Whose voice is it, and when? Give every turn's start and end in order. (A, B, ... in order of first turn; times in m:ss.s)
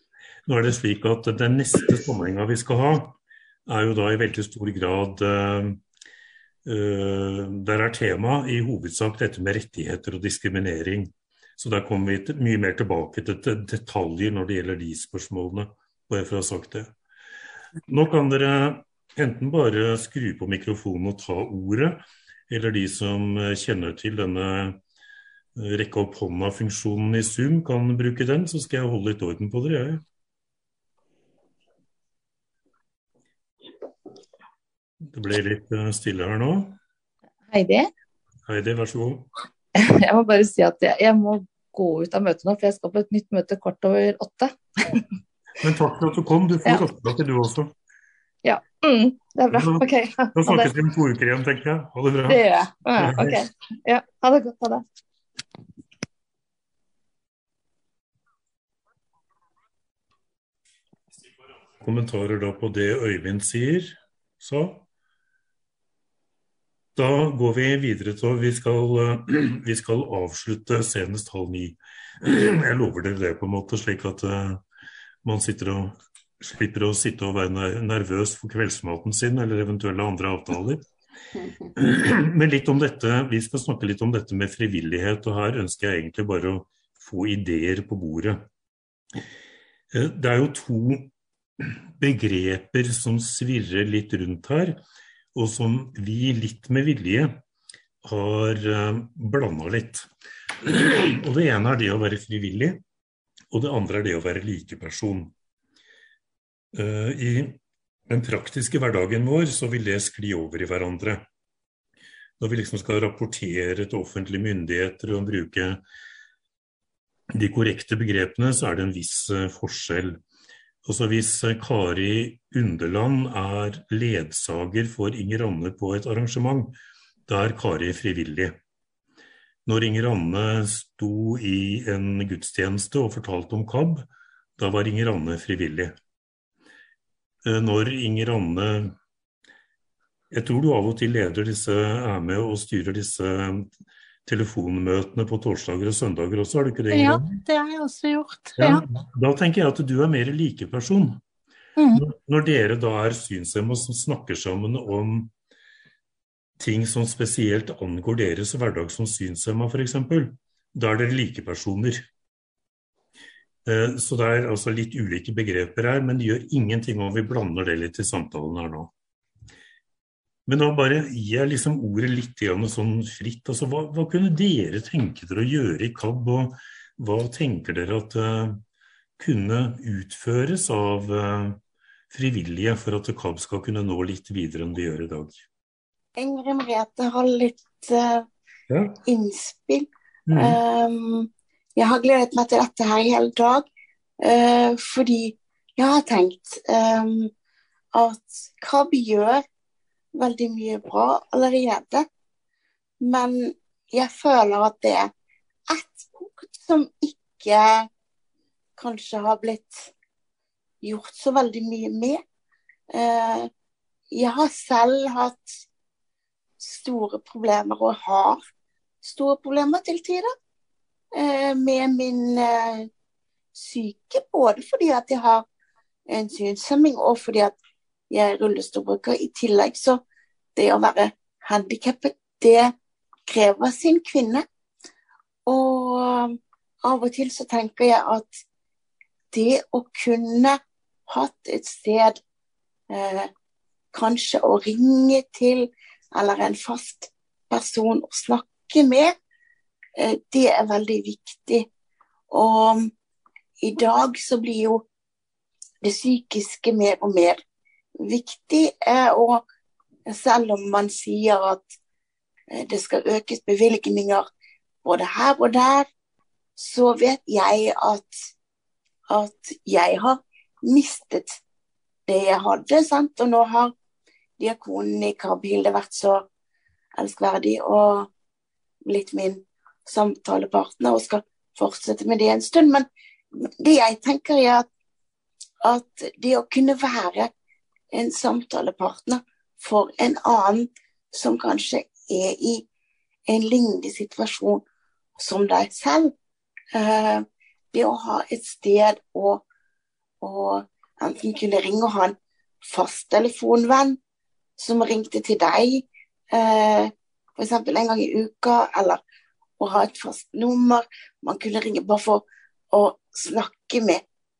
0:00.5-0:03.2 A
0:03.7-0:05.8 A
0:06.6-0:16.9 A
0:17.9-0:24.8 A
0:25.6-0:30.0 A
0:35.1-0:36.8 A
0:37.5-0:37.9 B
0:38.5-0:39.3 A
0:39.8-0:45.0 B
0:45.6-0:47.7 A
0:48.4-0:50.7 B
0:49.5-0:52.4 A
0:52.3-0:54.8 B
0:53.0-0:53.4 A
1:01.8-1:04.8 A
1:07.0-1:14.6 A
1:15.2-1:20.8 A
1:21.7-1:28.4 A
1:29.9-1:31.1 A
1:32.0-1:34.8 A
1:35.3-1:37.4 A
1:38.0-1:40.1 A
1:40.6-1:42.8 A
1:43.5-1:45.3 A
1:46.7-1:51.3 A
1:52.4-1:55.8 A
1:57.3-2:00.2 A
2:00.8-2:06.7 A
2:07.3-2:08.6 A
2:09.6-2:14.1 A
2:14.6-2:15.9 A
2:17.4-2:18.9 A
2:20.3-2:23.7 A
2:24.2-2:27.4 A
2:26.9-2:28.8 C
2:28.6-2:31.2 A
2:31.8-2:32.0 C
2:31.9-2:35.3 A
2:36.6-2:42.0 A
2:43.6-2:48.9 A
2:50.5-2:58.6 A
2:59.2-3:05.4 A
3:06.2-3:08.3 D
3:08.7-3:09.0 A
3:09.0-3:13.6 D
3:10.3-3:10.6 A
3:14.2-3:17.3 D
3:17.9-3:19.4 D
3:20.1-3:22.1 D
3:23.0-3:25.1 D
3:25.7-3:27.9 D
3:28.8-3:29.9 D
3:30.8-3:32.2 D
3:32.9-3:33.5 D
3:34.1-3:35.5 D
3:36.6-3:38.4 D
3:39.0-3:40.3 D
3:41.1-3:42.9 D
3:43.5-3:45.4 D
3:46.1-3:47.5 D
3:48.1-3:50.0 D
3:50.6-3:52.7 D
3:53.3-3:54.4 D
3:55.4-3:58.3 D
3:59.3-4:02.2 D
4:02.9-4:03.3 D
4:03.9-4:09.1 D
4:10.0-4:11.7 D
4:12.3-4:12.9 D
4:13.6-4:14.8 D
4:15.8-4:17.4 D
4:18.0-4:19.4 D
4:20.1-4:21.7 D
4:22.5-4:24.3 D
4:24.8-4:25.9 D
4:26.6-4:28.1 D
4:29.1-4:31.4 D
4:32.1-4:33.7 D
4:34.4-4:36.2 D
4:37.0-4:38.1 D
4:38.8-4:44.6 D
4:45.6-4:47.3 D
4:47.9-4:52.6 D
4:53.3-4:54.6 D
4:55.2-4:56.1 D
4:56.7-4:59.4 D
5:00.2-5:04.0 D
5:04.6-5:09.0 D
5:09.6-5:14.0 D